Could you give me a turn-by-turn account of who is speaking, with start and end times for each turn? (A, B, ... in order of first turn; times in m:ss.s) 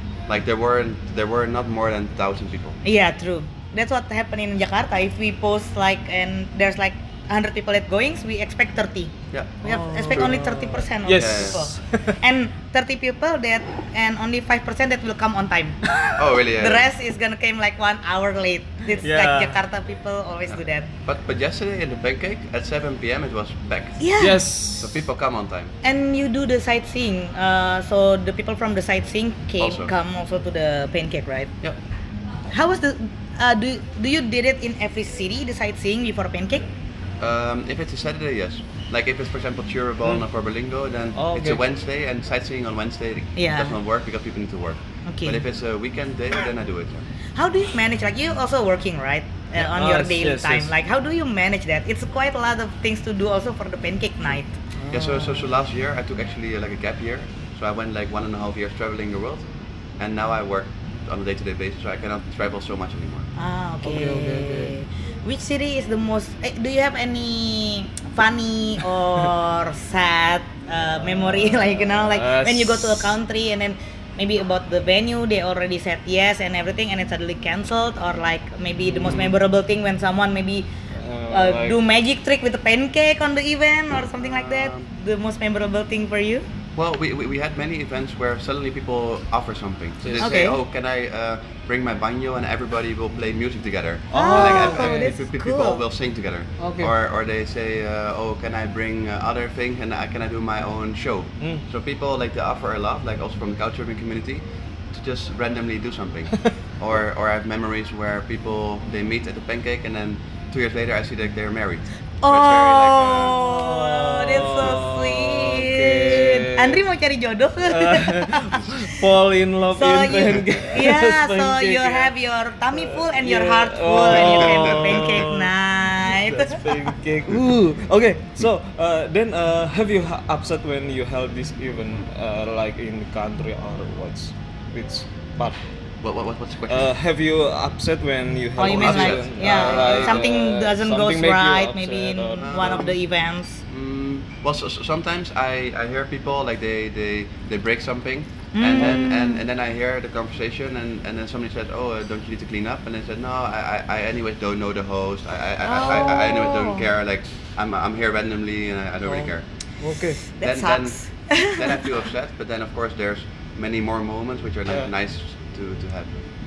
0:00.3-0:02.8 A
0:02.8-0:20.9 B
0:09.3-0:09.6 A
0:09.6-0:12.2 C
0:11.1-0:11.7 A
0:16.2-0:16.9 A
0:19.0-0:19.6 C
0:20.5-0:25.7 A
0:24.0-0:24.4 B
0:24.2-0:25.0 C
0:25.8-0:31.5 B
0:29.6-0:29.9 A
0:32.5-0:36.6 B
0:37.2-0:47.0 A
0:41.2-0:41.6 C
0:43.4-0:43.8 B
0:45.0-0:45.4 B
0:47.4-0:54.5 B
0:49.6-0:50.7 C
0:54.8-0:55.4 C
0:54.9-0:59.5 A
1:00.0-1:03.3 A
1:03.4-1:20.7 B
1:03.8-1:04.7 C
1:11.0-1:13.1 C
1:18.8-1:19.4 C
1:20.9-1:21.8 C
1:21.3-1:26.4 B
1:24.2-1:24.9 A
1:26.8-1:53.4 A
1:30.0-1:30.3 C
1:30.2-1:30.6 B
1:34.1-1:35.1 C
1:34.1-1:35.8 B
1:36.6-1:36.9 C
1:52.2-1:59.0 B
1:53.4-1:56.8 C
1:57.6-2:02.1 C
1:59.7-2:06.8 B
2:02.7-2:05.5 C
2:04.0-2:05.3 A
2:06.0-2:15.6 C
2:16.0-2:16.9 A
2:16.7-2:22.9 C
2:18.6-2:23.6 B
2:18.6-2:20.2 A
2:22.4-2:22.9 A
2:23.7-2:39.4 A
2:28.5-2:29.4 B
2:35.6-2:36.8 B
2:39.0-2:40.2 C
2:40.3-2:41.8 B
2:40.4-2:46.2 A